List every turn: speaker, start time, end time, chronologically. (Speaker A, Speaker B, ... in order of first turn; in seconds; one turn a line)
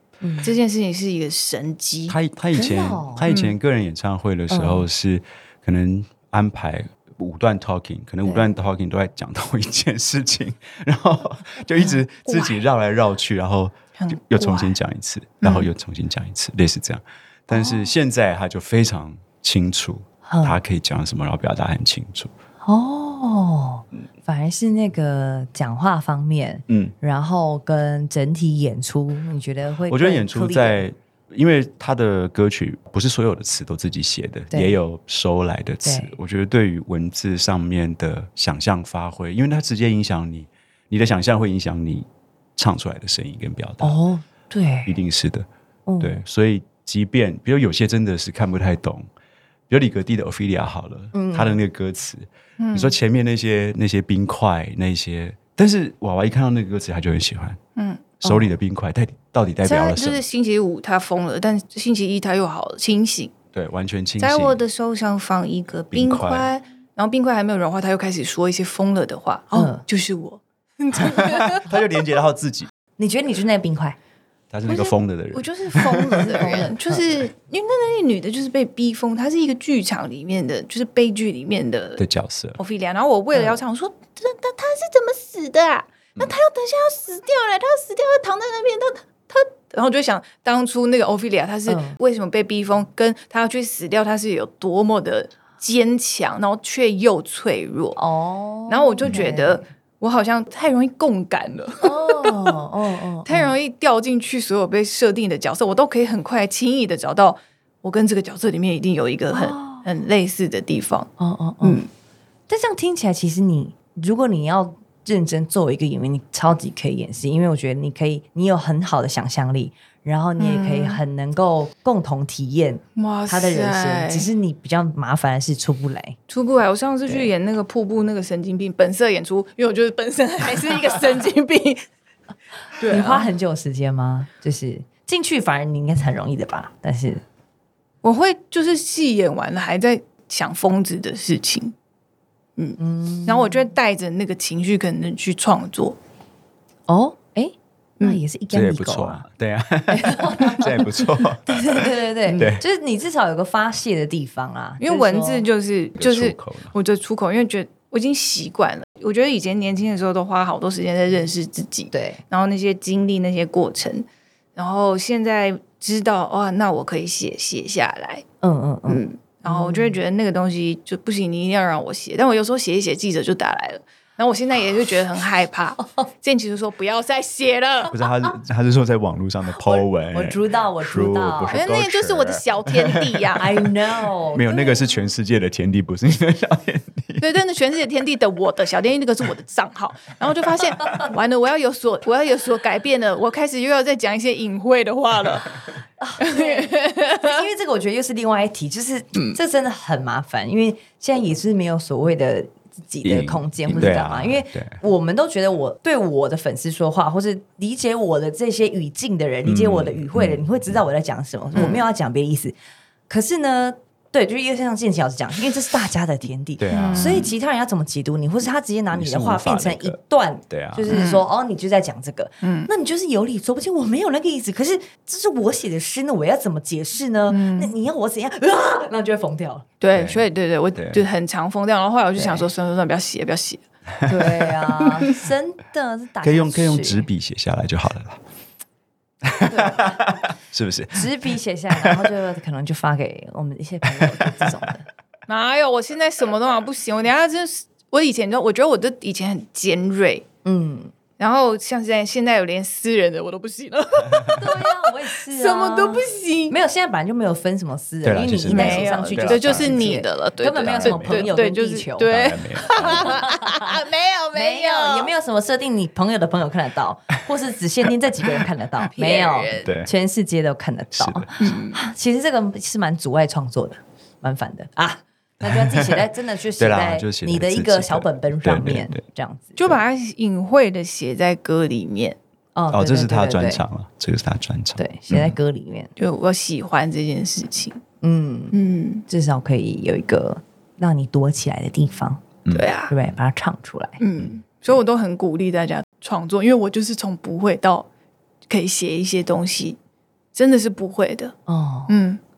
Speaker A: 0.2-0.6
Speaker B: 0.4-2.2
Speaker C: 2.1-22.3
Speaker A: 2.5-3.3
Speaker B: 3.3-3.5
Speaker A: 4.5-4.9
Speaker B: 12.3-12.6
Speaker B: 14.0-14.8
Speaker B: 15.4-15.7
Speaker A: 20.3-20.6
Speaker A: 22.6-30.8
Speaker C: 26.7-26.9
Speaker C: 29.9-44.0
Speaker A: 34.5-34.8
Speaker A: 35.8-36.1
Speaker A: 43.8-45.0
Speaker C: 44.9-45.5
Speaker A: 45.9-46.2
Speaker C: 46.0-49.1
Speaker C: 49.7-57.6
Speaker A: 51.1-51.6
Speaker B: 52.6-53.0
Speaker B: 57.8-58.1
Speaker C: 58.2-60.2
Speaker A: 58.2-58.5
Speaker B: 59.6-63.3
Speaker C: 63.5-64.6
Speaker B: 64.2-71.7
Speaker C: 65.9-66.5
Speaker A: 69.5-69.8
Speaker C: 71.1-72.7
Speaker A: 73.0-74.0
Speaker C: 74.5-76.5
Speaker B: 74.7-82.0
Speaker A: 76.2-77.0
Speaker C: 82.0-82.6
Speaker B: 82.6-98.0
Speaker A: 83.3-83.6
Speaker A: 91.7-92.0
Speaker A: 98.0-99.6
Speaker B: 98.7-102.6
Speaker A: 101.8-103.5
Speaker B: 103.3-111.1
Speaker A: 109.3-109.8
Speaker A: 111.2-111.8
Speaker B: 111.6-111.9
Speaker A: 112.5-126.2
Speaker B: 120.4-121.0
Speaker B: 123.0-124.3
Speaker B: 126.3-131.9
Speaker B: 132.8-133.3
Speaker A: 132.9-137.2
Speaker B: 138.0-141.7
Speaker B: 142.6-146.0
Speaker A: 142.8-143.7
Speaker A: 146.9-149.2
Speaker C: 148.5-152.6
Speaker A: 149.9-150.8
Speaker A: 151.4-155.5
Speaker B: 154.8-168.2
Speaker C: 156.0-156.7
Speaker A: 161.9-162.2
Speaker A: 168.4-170.0
Speaker B: 168.9-178.0
Speaker C: 177.9-183.3
Speaker A: 179.6-181.6
Speaker B: 181.5-183.6
Speaker A: 183.4-184.7
Speaker C: 184.3-187.3
Speaker B: 187.2-195.6
Speaker A: 196.0-212.6
Speaker B: 196.2-197.4
Speaker C: 203.0-204.8
Speaker C: 209.4-210.4
Speaker B: 211.6-211.8
Speaker A: 213.1-229.7
Speaker C: 216.6-217.3
Speaker B: 216.7-217.3
Speaker C: 218.9-220.0
Speaker C: 220.5-220.9
Speaker B: 220.9-221.3
Speaker B: 222.4-222.7
Speaker B: 227.3-227.7
Speaker B: 229.8-233.6
Speaker C: 229.9-231.1
Speaker A: 232.2-232.5
Speaker A: 234.1-237.1
Speaker C: 236.2-238.2
Speaker C: 239.2-241.1
Speaker A: 240.9-244.8
Speaker C: 241.8-242.1
Speaker C: 243.9-244.5
Speaker B: 245.3-250.2
Speaker A: 250.4-250.9
Speaker B: 251.2-256.6
Speaker A: 254.3-262.1
Speaker C: 258.0-259.9
Speaker B: 258.5-265.1
Speaker C: 260.6-261.3
Speaker C: 262.1-263.2
Speaker A: 262.8-279.8
Speaker B: 268.9-269.7
Speaker C: 269.6-269.9
Speaker C: 270.9-271.3
Speaker B: 271.4-271.8
Speaker C: 275.4-276.1
Speaker C: 276.6-279.0
Speaker B: 279.6-282.2
Speaker A: 282.6-283.6
Speaker C: 282.7-285.4
Speaker A: 284.8-285.9
Speaker B: 286.0-287.8
Speaker A: 288.0-288.6
Speaker B: 288.5-289.1
Speaker A: 289.1-292.2
Speaker B: 292.5-292.9
Speaker A: 292.9-294.0
Speaker B: 294.0-297.9
Speaker B: 298.5-299.8
Speaker B: 300.4-301.4
Speaker A: 301.5-301.9
Speaker B: 301.9-302.2